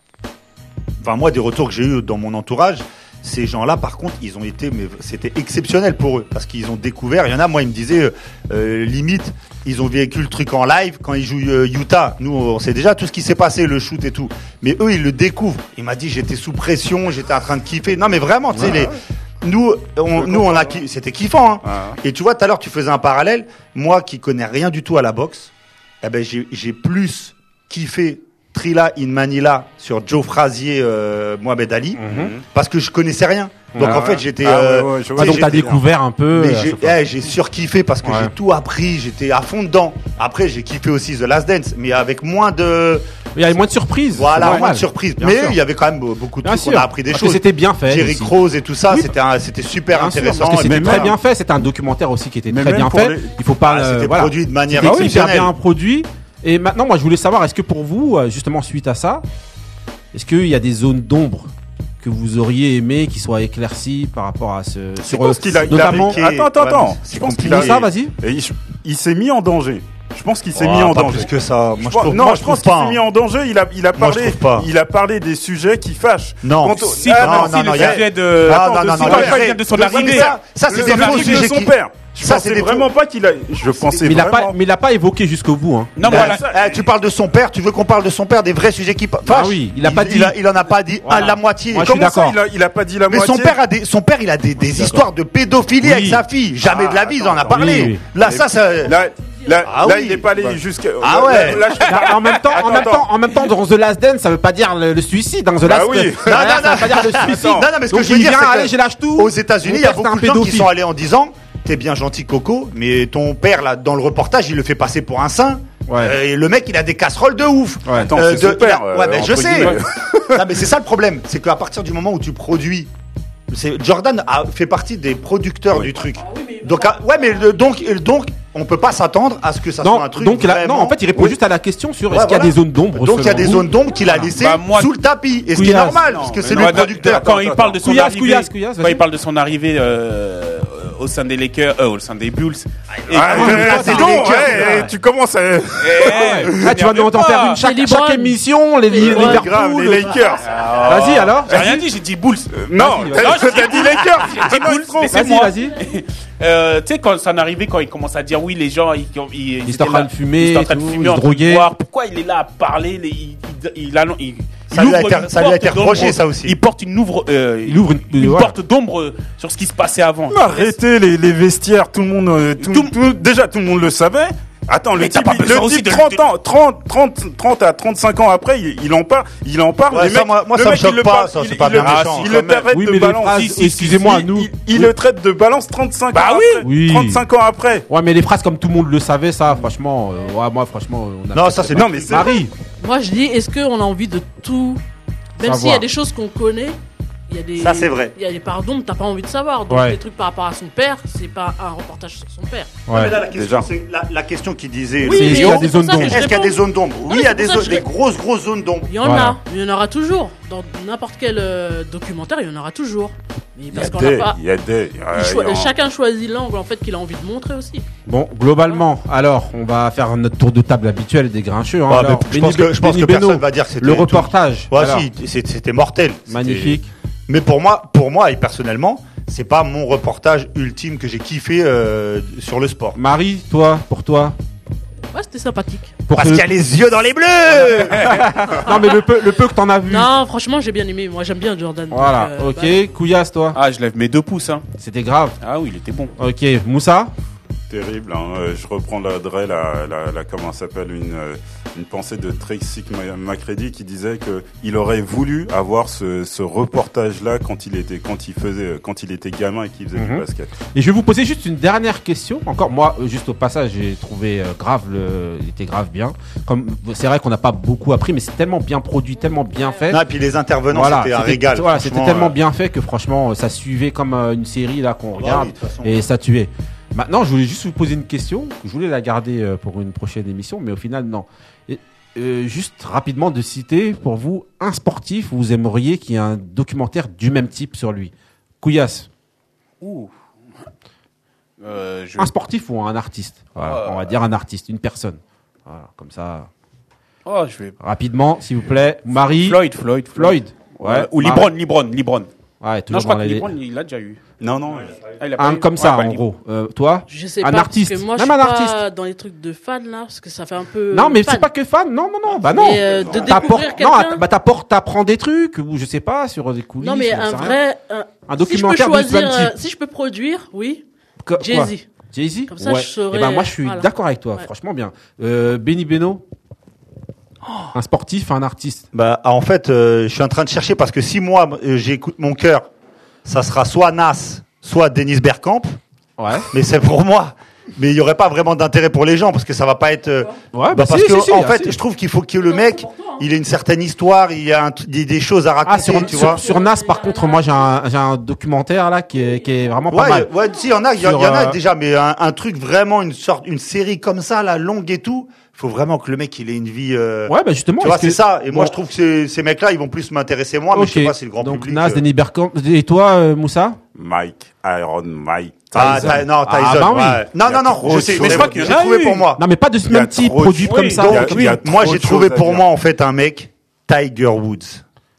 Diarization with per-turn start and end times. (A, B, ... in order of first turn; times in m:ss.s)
0:01.0-0:35.8 A
0:20.2-0:20.8 B
0:21.7-0:22.0 B
0:32.0-0:32.3 C
0:32.1-0:32.4 B
0:33.7-0:34.1 C
0:33.8-0:35.8 B
0:35.2-0:37.0 C
0:36.3-0:43.0 A
0:38.0-0:38.3 C
0:43.4-0:45.6 C
0:44.1-0:51.2 A
0:46.4-0:48.3 C
0:49.9-0:59.2 C
0:50.6-0:51.2 B
0:52.5-0:53.3 B
0:53.6-0:55.5 A
1:00.1-1:06.2 C
1:05.1-1:24.5 B
1:05.1-1:07.9 A
1:07.4-1:08.1 C
1:10.5-1:13.0 A
1:14.0-1:14.7 A
1:16.4-1:22.9 A
1:16.8-1:21.5 D
1:24.0-1:26.0 C
1:26.0-1:26.5 D
1:26.0-1:26.8 B
1:26.1-1:32.1 A
1:29.2-1:30.4 C
1:31.0-1:32.4 C
1:31.8-1:33.6 B
1:33.1-1:39.0 A
1:34.6-1:35.0 C
1:35.8-1:36.2 C
1:36.6-1:43.1 B
1:37.5-1:38.0 C
1:39.6-1:41.7 A
1:41.8-1:50.7 C
1:45.6-1:47.6 B
1:46.2-1:59.8 A
1:55.9-1:56.2 C
1:57.9-1:58.1 C
1:58.1-2:00.4 B
2:00.3-2:02.9 A
2:03.5-2:11.4 A
2:06.2-2:07.1 E
2:09.8-2:14.2 C
2:12.1-2:17.3 A
2:14.4-2:14.9 D
2:15.5-2:16.0 C
2:15.7-2:17.8 B
2:16.2-2:24.1 D
2:17.8-2:19.0 C
2:23.1-2:26.4 B
2:23.3-2:24.9 A
2:23.3-2:24.9 C
2:25.8-2:27.6 D
2:26.0-2:30.2 C
2:27.6-2:29.5 E
2:28.9-2:30.5 B
2:30.4-2:32.5 D
2:30.8-2:31.8 C
2:31.5-2:31.8 B
2:32.5-2:35.2 B
2:32.8-2:33.7 C
2:33.1-2:50.7 D
2:35.1-2:35.8 C
2:39.6-2:41.7 C
2:44.7-2:46.6 A
2:47.6-2:48.5 C
2:50.3-3:07.9 B
2:52.6-2:52.9 D
2:55.0-2:56.2 D
2:59.9-3:02.7 A
3:01.8-3:02.4 D
3:02.7-3:04.9 C
3:03.2-3:04.2 D
3:06.1-3:06.6 D
3:06.6-3:07.2 C
3:07.9-3:12.5 C
3:11.3-3:12.4 A
3:11.7-3:12.4 B
3:12.8-3:14.8 E
3:15.4-3:16.8 E
3:15.4-3:15.9 C
3:17.3-3:22.8 E
3:17.6-3:18.1 A
3:19.7-3:20.0 C
3:22.9-3:23.2 C
3:22.9-3:28.9 A
3:23.2-3:23.7 B
3:25.0-3:27.9 E
3:25.1-3:26.3 C
3:28.9-3:34.4 E
3:29.0-3:29.4 C
3:33.7-3:35.7 B
3:35.1-3:37.9 E
3:38.1-3:45.1 C
3:41.9-3:53.0 A
3:46.3-3:46.9 C
3:53.0-3:54.4 C
3:55.1-3:56.0 E
3:56.1-3:56.5 C
3:56.1-3:58.2 A
3:57.9-4:00.2 C
3:58.7-3:59.0 E
3:59.9-4:02.8 E
4:01.9-4:03.6 C
4:03.5-4:04.6 D
4:04.8-4:05.4 C
4:05.4-4:06.1 D
4:06.2-4:07.1 C
4:07.7-4:20.5 B
4:19.9-4:30.0 C
4:29.5-4:29.8 E
4:29.9-4:32.4 A
4:30.7-4:49.1 C
4:35.1-4:36.1 A
4:49.8-4:50.1 D
4:51.6-4:52.3 D
4:52.2-4:56.5 C
4:53.6-4:54.0 D
4:57.2-4:57.7 D
4:57.8-4:59.6 C
4:59.2-5:02.3 D
5:00.1-5:01.5 C
5:02.6-5:03.5 C
5:02.9-5:04.2 D
5:04.4-5:04.9 B
5:05.2-5:06.2 D
5:05.4-5:08.8 C
5:07.1-5:11.5 E
5:10.9-5:17.6 C
5:12.5-5:14.2 E
5:16.8-5:20.8 E
5:18.3-5:19.5 C
5:21.2-5:26.2 C
5:21.4-5:21.9 E
5:22.5-5:24.5 E
5:27.7-5:28.8 C
5:28.9-5:32.7 A
5:33.2-5:35.8 A
5:36.2-5:36.5 C
5:36.5-5:46.4 A
5:40.5-5:41.8 C
5:42.5-5:43.2 E
5:45.6-5:50.3 C
5:45.7-5:47.7 E
5:49.9-6:02.0 A
5:51.0-5:51.6 C
5:57.3-5:58.7 C
6:00.7-6:03.8 C
6:03.9-6:06.2 B
6:05.7-6:09.4 A
6:05.8-6:07.2 C
6:07.4-6:08.8 B
6:07.9-6:09.3 D
6:09.4-6:11.6 C
6:09.9-6:12.6 B
6:10.6-6:11.1 D
6:11.0-6:14.8 A